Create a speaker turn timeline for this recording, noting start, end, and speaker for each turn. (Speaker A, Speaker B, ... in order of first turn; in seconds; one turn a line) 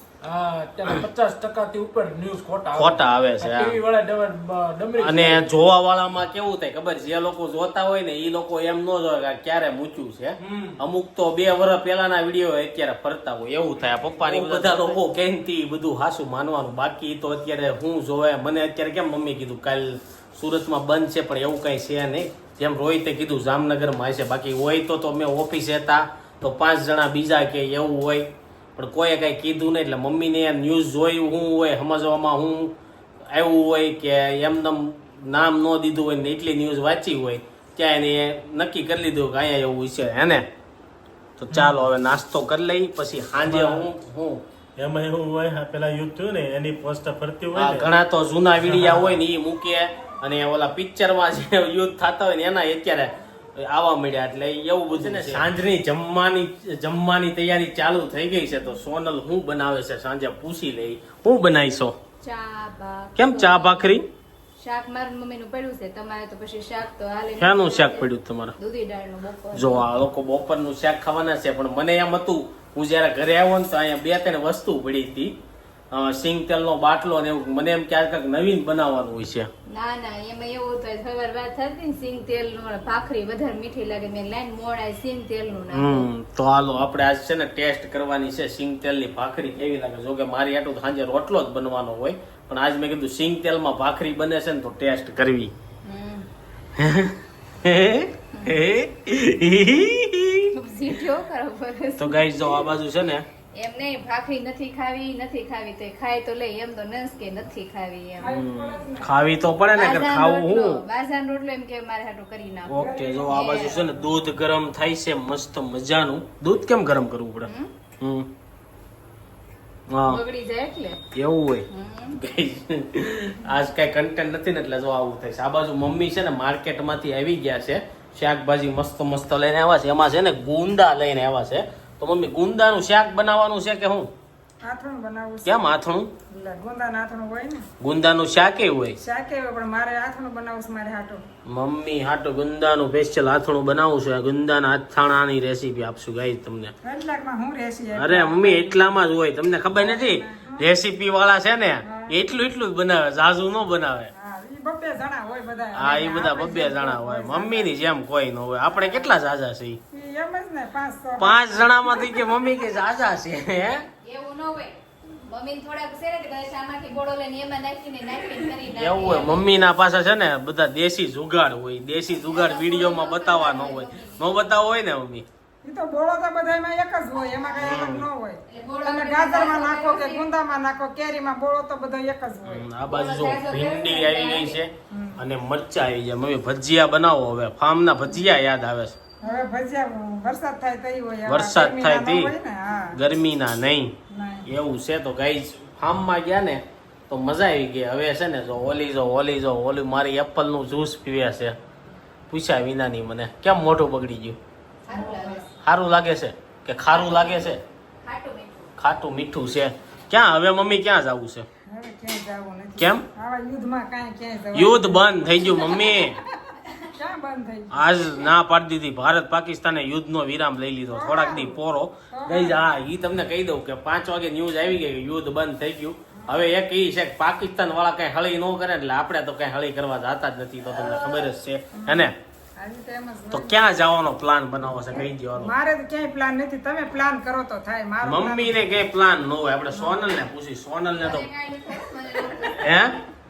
Speaker A: 0.2-5.4
Speaker B: 2.8-3.8
Speaker B: 5.0-32.7
Speaker A: 10.5-10.8
Speaker B: 33.3-40.5
Speaker B: 41.4-44.4
Speaker C: 41.5-41.8
Speaker C: 43.4-43.9
Speaker C: 44.8-47.9
Speaker B: 47.5-62.0
Speaker C: 48.6-49.2
Speaker D: 55.1-55.4
Speaker D: 62.2-63.8
Speaker B: 63.2-64.1
Speaker D: 64.6-69.9
Speaker B: 67.4-68.5
Speaker B: 69.5-75.3
Speaker B: 75.9-79.5
Speaker D: 79.7-86.1
Speaker B: 85.7-95.5
Speaker D: 95.8-96.3
Speaker B: 96.8-100.5
Speaker D: 98.3-98.6
Speaker D: 100.5-102.7
Speaker B: 102.0-103.3
Speaker D: 103.6-108.4
Speaker E: 108.2-109.1
Speaker B: 108.2-110.8
Speaker D: 109.7-114.0
Speaker B: 112.7-118.3
Speaker E: 112.7-113.6
Speaker D: 117.5-117.7
Speaker B: 119.9-120.2
Speaker D: 120.0-121.0
Speaker B: 121.1-134.1
Speaker D: 121.7-122.2
Speaker E: 134.6-135.8
Speaker B: 135.4-136.1
Speaker E: 136.3-137.7
Speaker B: 137.8-139.0
Speaker E: 139.0-141.2
Speaker B: 141.5-146.7
Speaker E: 146.8-148.9
Speaker B: 147.9-154.1
Speaker E: 149.8-150.7
Speaker E: 151.8-152.2
Speaker E: 154.2-157.8
Speaker B: 155.8-159.8
Speaker E: 158.7-159.1
Speaker E: 159.9-162.3
Speaker B: 161.2-163.9
Speaker D: 164.0-169.7
Speaker B: 168.7-175.3
Speaker D: 172.1-174.6
Speaker E: 175.6-182.7
Speaker B: 177.6-178.1
Speaker D: 178.5-180.3
Speaker B: 182.4-189.0
Speaker D: 182.8-184.6
Speaker E: 184.9-185.2
Speaker E: 189.2-193.0
Speaker B: 191.3-192.3
Speaker B: 192.9-193.9
Speaker E: 194.1-194.5
Speaker B: 194.5-201.6
Speaker B: 202.3-204.4
Speaker D: 204.9-205.5
Speaker E: 204.9-205.5
Speaker B: 205.6-207.6
Speaker D: 206.9-208.7
Speaker B: 208.8-211.5
Speaker E: 211.7-216.4
Speaker B: 212.8-213.1
Speaker B: 214.5-216.2
Speaker E: 216.9-218.3
Speaker B: 217.7-232.2
Speaker E: 220.9-221.6
Speaker E: 222.1-222.6
Speaker E: 231.8-233.6
Speaker B: 233.3-235.5
Speaker E: 235.4-238.6
Speaker B: 238.0-241.3
Speaker E: 239.7-240.0
Speaker D: 241.0-242.9
Speaker B: 242.5-243.0